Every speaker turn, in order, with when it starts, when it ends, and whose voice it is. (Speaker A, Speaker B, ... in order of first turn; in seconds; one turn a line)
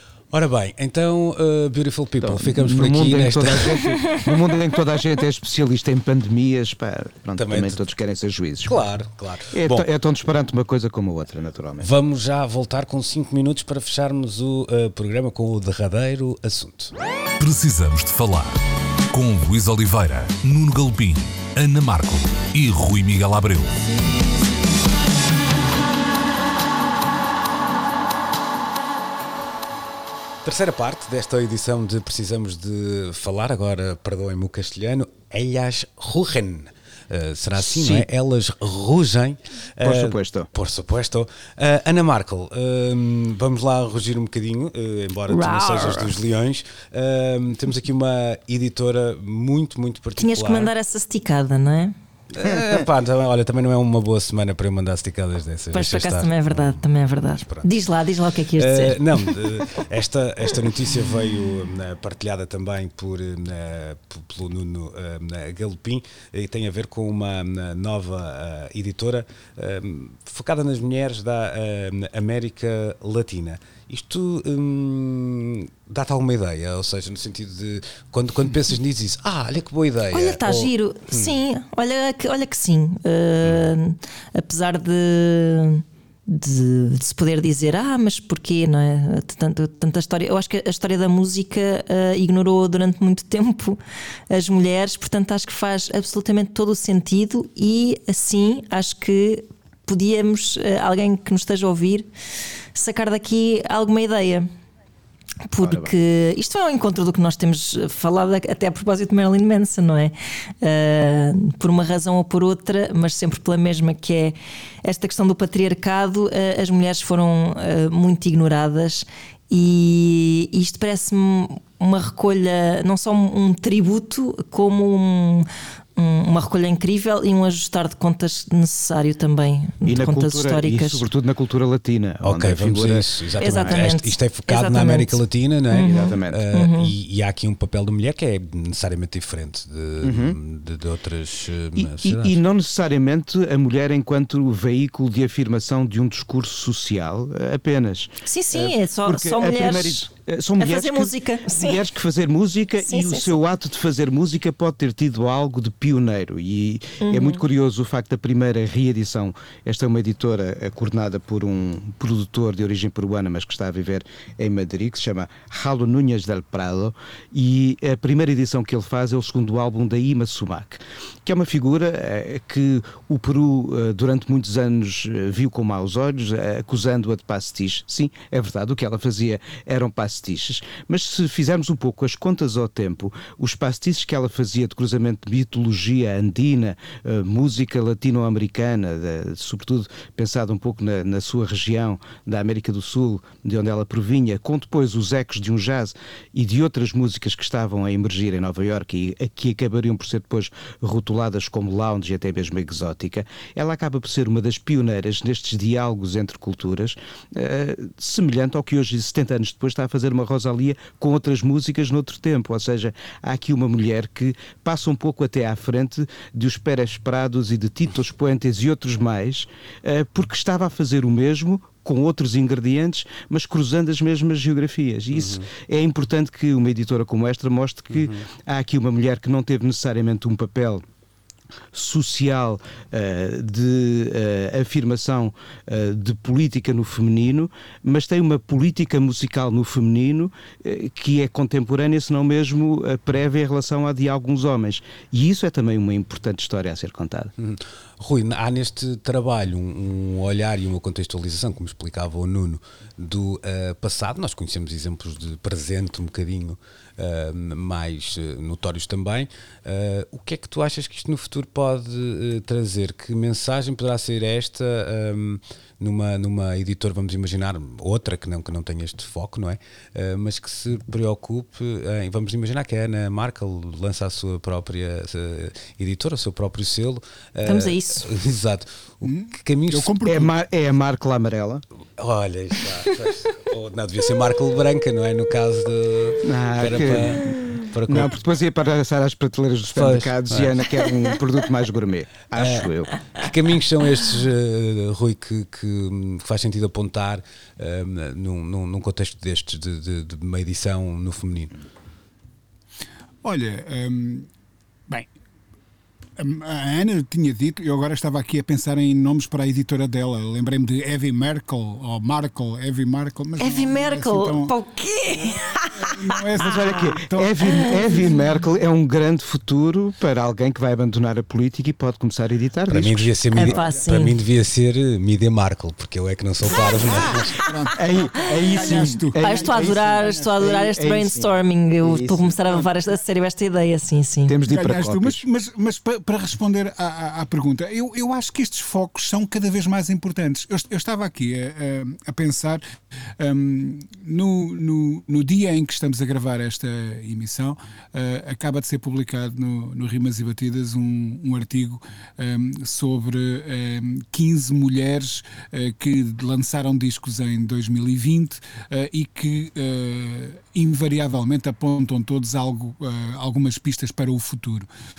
Speaker A: 0.3-3.8
Speaker B: 2.2-8.8
Speaker C: 3.8-4.2
Speaker A: 7.4-7.8
Speaker A: 8.6-9.9
Speaker B: 9.5-11.9
Speaker A: 11.8-16.9
Speaker D: 17.4-23.9
Speaker A: 30.4-50.7
Speaker B: 37.6-38.1
Speaker B: 39.8-40.5
Speaker C: 45.3-46.1
Speaker C: 50.2-51.9
Speaker A: 52.3-57.7
Speaker C: 55.7-59.7
Speaker A: 58.5-81.3
Speaker C: 80.1-93.8
Speaker C: 94.3-102.1
Speaker C: 102.7-104.5
Speaker C: 105.5-131.1
Speaker B: 105.6-105.9
Speaker B: 129.8-133.8
Speaker A: 132.2-142.4
Speaker C: 133.4-136.9
Speaker B: 135.8-136.4
Speaker B: 140.0-140.4
Speaker B: 141.8-230.8
Speaker C: 148.2-150.1
Speaker C: 150.6-151.8
Speaker C: 152.8-153.4
Speaker C: 157.0-157.4
Speaker A: 225.2-225.4
Speaker A: 227.9-228.2
Speaker B: 231.7-247.3
Speaker A: 247.4-280.1
Speaker C: 277.4-278.1
Speaker E: 279.0-280.3
Speaker B: 280.0-281.6
Speaker A: 282.0-288.2
Speaker B: 286.2-287.2
Speaker B: 287.9-292.9
Speaker A: 289.7-290.7
Speaker A: 292.3-301.5
Speaker E: 303.2-304.3
Speaker E: 306.2-314.5
Speaker C: 313.4-316.2
Speaker E: 315.8-318.0
Speaker B: 316.4-323.5
Speaker C: 317.4-318.0
Speaker A: 322.7-327.4
Speaker C: 323.3-324.2
Speaker C: 326.6-327.5
Speaker E: 327.3-330.2
Speaker B: 327.8-332.7
Speaker C: 328.5-334.4
Speaker B: 334.3-335.2
Speaker E: 334.5-342.6
Speaker E: 343.2-364.7